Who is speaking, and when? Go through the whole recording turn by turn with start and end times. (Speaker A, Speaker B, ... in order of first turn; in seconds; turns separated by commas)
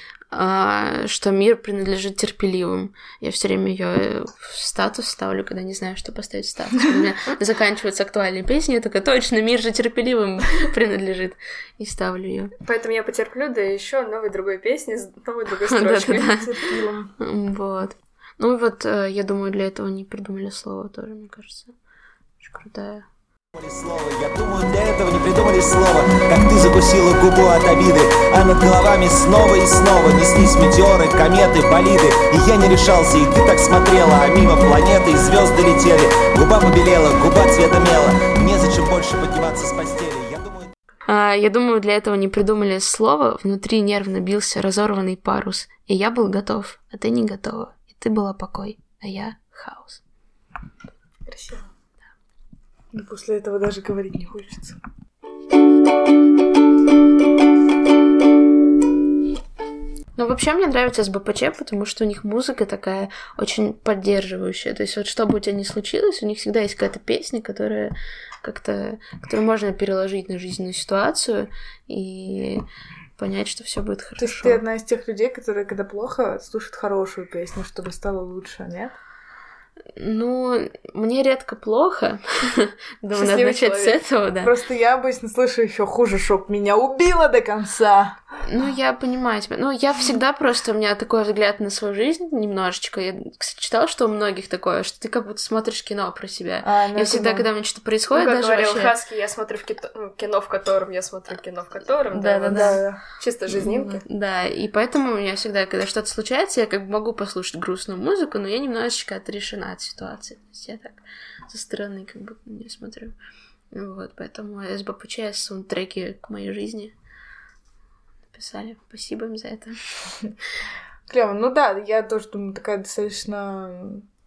Speaker A: 0.3-12.5, Speaker B: 12.6-16.4, Speaker A: 15.7-16.5, Speaker C: 16.4-17.1, Speaker A: 17.2-21.7, Speaker A: 22.4-23.0, Speaker D: 23.5-40.7, Speaker A: 41.1-50.0, Speaker B: 51.3-51.6, Speaker C: 52.9-54.8, Speaker A: 60.1-72.6, Speaker A: 73.2-74.6, Speaker C: 74.2-78.9, Speaker A: 80.0-84.5, Speaker B: 83.1-84.0, Speaker C: 84.4-88.2, Speaker A: 88.4-98.9, Speaker C: 96.6-97.5, Speaker B: 98.1-104.0, Speaker A: 102.1-102.8, Speaker C: 102.5-103.0, Speaker A: 103.5-113.1, Speaker A: 113.7-116.9, Speaker A: 118.3-119.8, Speaker C: 121.1-124.0